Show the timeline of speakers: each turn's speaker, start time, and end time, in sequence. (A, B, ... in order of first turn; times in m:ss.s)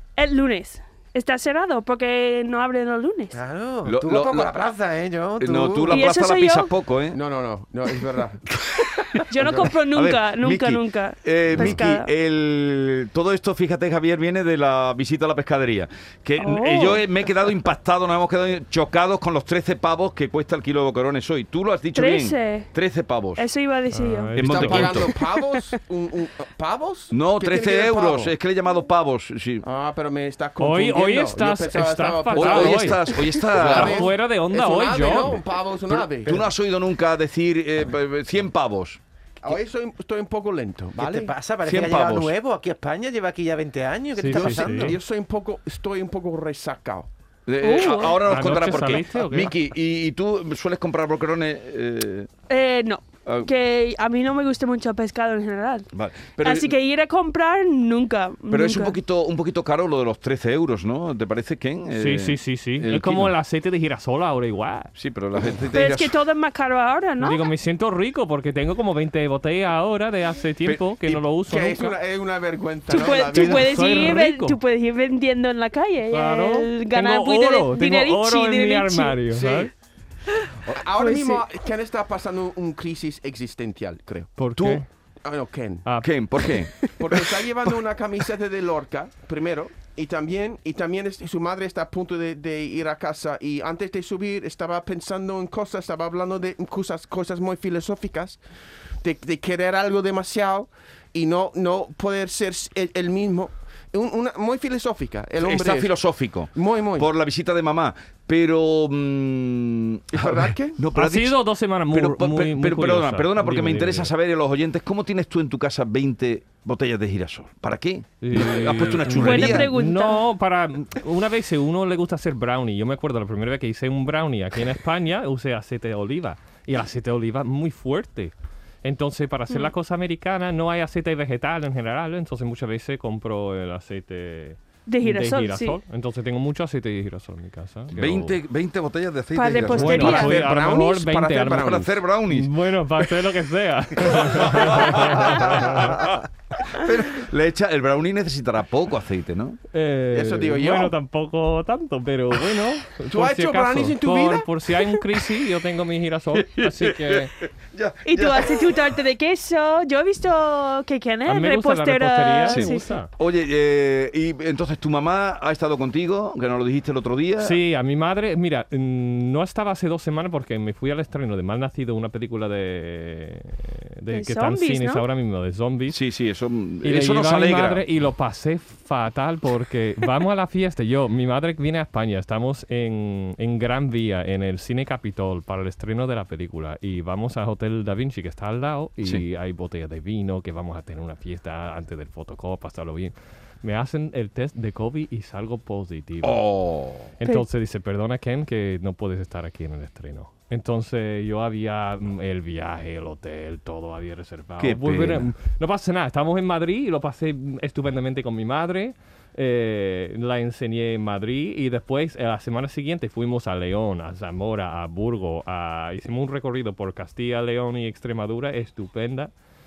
0:00.2-0:03.4 A
0:03.3-0:06.1 B
0:03.9-0:04.5 C
0:05.4-0:07.2 C
0:05.9-0:06.7 A
0:07.1-0:08.4 D
0:08.5-0:23.5 C
0:09.3-0:12.1 A
0:16.4-0:17.0 A
0:22.0-0:22.7 A
0:23.4-0:24.4 A
0:23.9-0:25.1 E
0:24.4-0:25.1 C
0:24.4-0:28.3 D
0:25.1-0:25.6 A
0:27.1-0:29.7 C
0:29.6-0:36.4 D
0:30.6-0:33.0 E
0:32.3-0:34.1 C
0:33.6-0:35.4 E
0:36.0-0:39.0 C
0:39.4-0:41.3 D
0:41.0-0:45.0 B
0:41.7-0:42.3 C
0:44.2-0:45.0 E
0:44.3-0:47.1 D
0:47.5-0:52.3 C
0:47.6-0:48.2 A
0:48.2-0:49.5 E
0:52.5-0:55.9 A
0:55.9-0:56.7 C
0:56.4-0:59.0 A
0:58.5-1:03.4 C
1:01.9-1:04.9 E
1:05.0-1:06.2 C
1:05.7-1:07.5 A
1:07.2-1:12.0 E
1:10.6-1:11.2 C
1:11.5-1:13.9 D
1:12.9-1:19.2 A
1:13.3-1:14.6 E
1:16.1-1:19.7 E
1:20.5-1:21.4 A
1:20.7-1:24.4 D
1:24.4-1:24.9 E
1:24.6-1:24.8 C
1:25.2-1:25.9 D
1:25.8-1:26.1 E
1:26.0-1:27.0 C
1:27.0-1:38.4 D
1:39.0-1:46.0 D
1:45.4-1:59.7 C
1:46.5-1:47.1 D
1:50.1-1:50.8 D
1:50.9-1:54.1 E
1:58.2-2:08.3 E
1:59.1-2:00.2 A
2:08.8-2:18.4 E
2:14.9-2:15.8 A
2:17.9-2:20.4 C
2:19.3-2:20.4 A
2:19.6-2:26.1 E
2:20.0-2:22.0 D
2:21.5-2:22.5 C
2:24.0-2:29.6 C
2:29.7-2:37.3 E
2:30.1-2:30.9 D
2:33.1-2:34.5 D
2:36.4-2:38.7 C
2:38.1-2:42.9 A
2:41.3-2:43.1 E
2:42.5-2:47.6 C
2:47.4-2:56.0 E
2:54.1-2:55.0 A
2:55.9-2:57.8 C
2:56.8-3:16.4 E
3:16.2-3:17.1 C
3:17.2-3:39.3 E
3:24.6-3:25.3 C